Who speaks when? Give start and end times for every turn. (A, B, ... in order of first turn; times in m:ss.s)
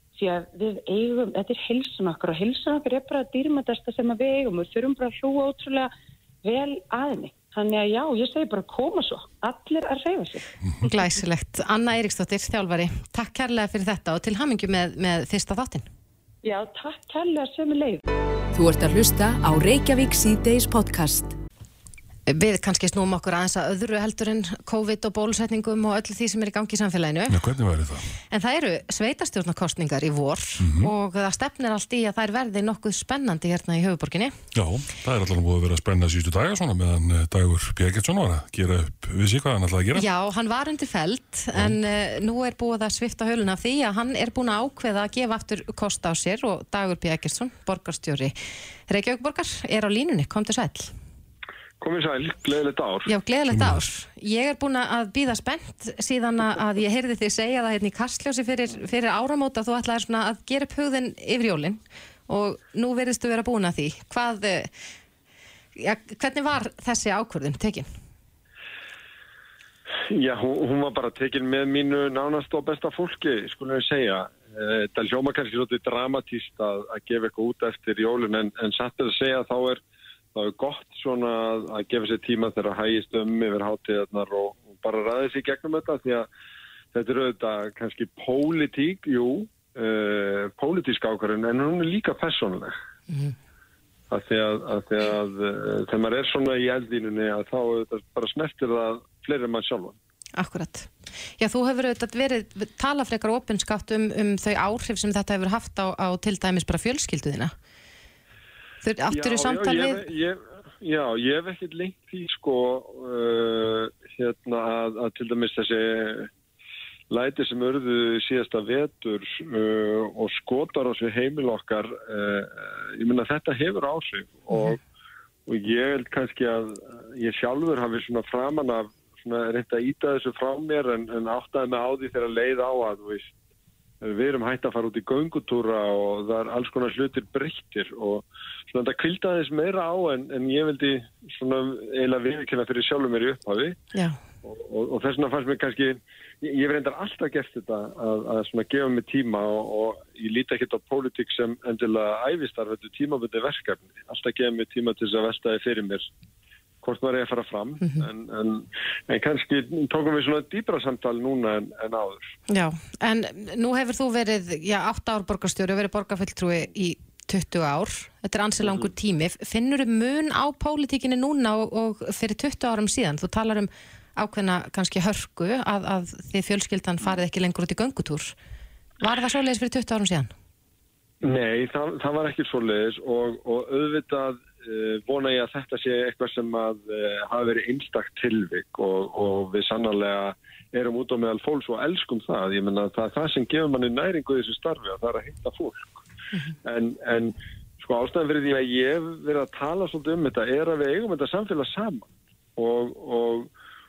0:00.2-0:05.9 A
0:06.4-0:10.5 A
0:10.8-0:15.9 B
0:16.4-0:18.0 A
0:18.5-0:21.3 C
0:22.3-0:27.4 B
0:27.3-0:28.1 D
0:28.3-0:34.4 B
0:30.6-0:30.9 D
0:34.5-0:40.0 D
0:39.9-0:48.4 B
0:48.9-0:50.9 B
0:51.8-0:53.1 E
0:53.0-1:04.7 B
0:53.5-0:53.8 D
1:05.8-1:07.9 B
1:10.1-1:19.8 E
1:20.3-1:26.3 E
1:26.9-1:32.7 E
1:34.1-1:40.0 E
1:40.4-1:47.5 B
1:48.8-1:50.0 B
1:49.1-1:56.3 E
1:57.1-2:04.8 E
2:05.5-2:13.3 E
2:14.0-2:23.8 E
2:23.9-2:24.2 B
2:24.4-2:36.1 E
2:36.8-2:42.4 E
2:42.5-2:58.3 B
2:59.0-3:00.3 B
3:01.2-3:16.0 E
3:16.6-3:23.5 E